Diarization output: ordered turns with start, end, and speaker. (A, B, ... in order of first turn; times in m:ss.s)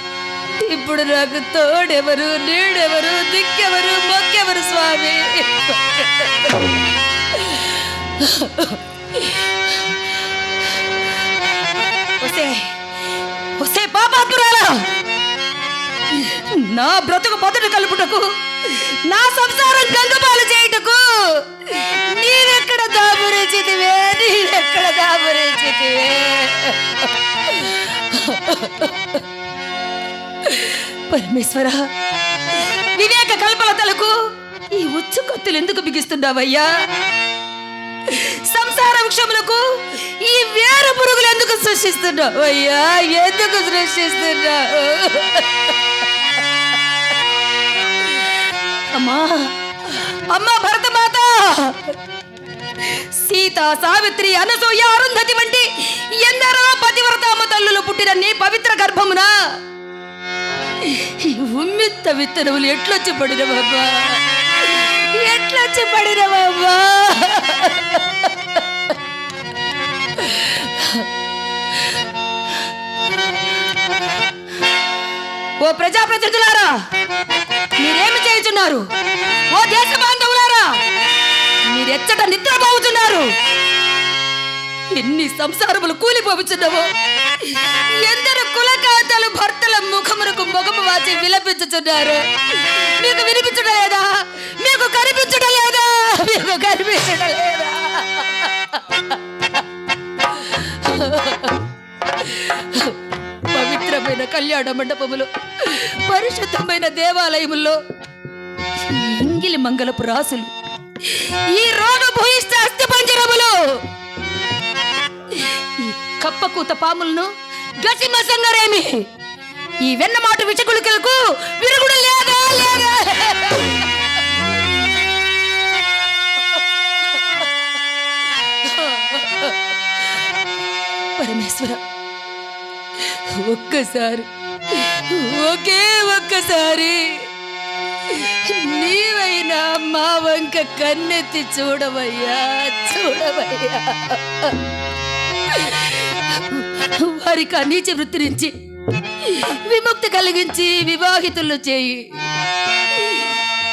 0:00.6-0:05.6 A
0:07.4-0:07.6 A
0:08.2-0:09.2 A
0:12.2-0:12.7 A
0:13.6-0:14.9 A
0:16.2-0:26.8 A
0:27.5-0:28.9 A
0:30.5-0:31.9 A
0:33.0-0:34.2 A
0:34.7-0:36.7 A
0:38.1-0:45.4 A
0:48.9-0:51.9 A
0:53.0-0:59.3 A
1:00.9-1:08.0 A
1:10.2-1:10.8 A
1:15.6-1:16.7 A
1:17.8-1:18.8 A
1:19.5-1:20.7 A
1:21.7-1:23.3 A
1:24.9-1:26.9 A
1:28.0-1:38.5 A
1:40.4-1:41.5 A
1:42.3-1:42.9 A
1:43.5-1:47.8 A
1:48.9-1:50.5 A
1:51.1-1:53.6 A
1:55.8-1:57.3 A
1:57.8-1:59.0 A
1:59.8-2:03.8 A
2:08.7-2:09.5 A
2:11.2-2:11.8 A
2:13.1-2:14.3 A
2:14.8-2:17.3 A
2:18.1-2:24.6 A
2:25.5-2:28.5 A
2:29.2-2:32.1 A
2:33.0-2:33.3 A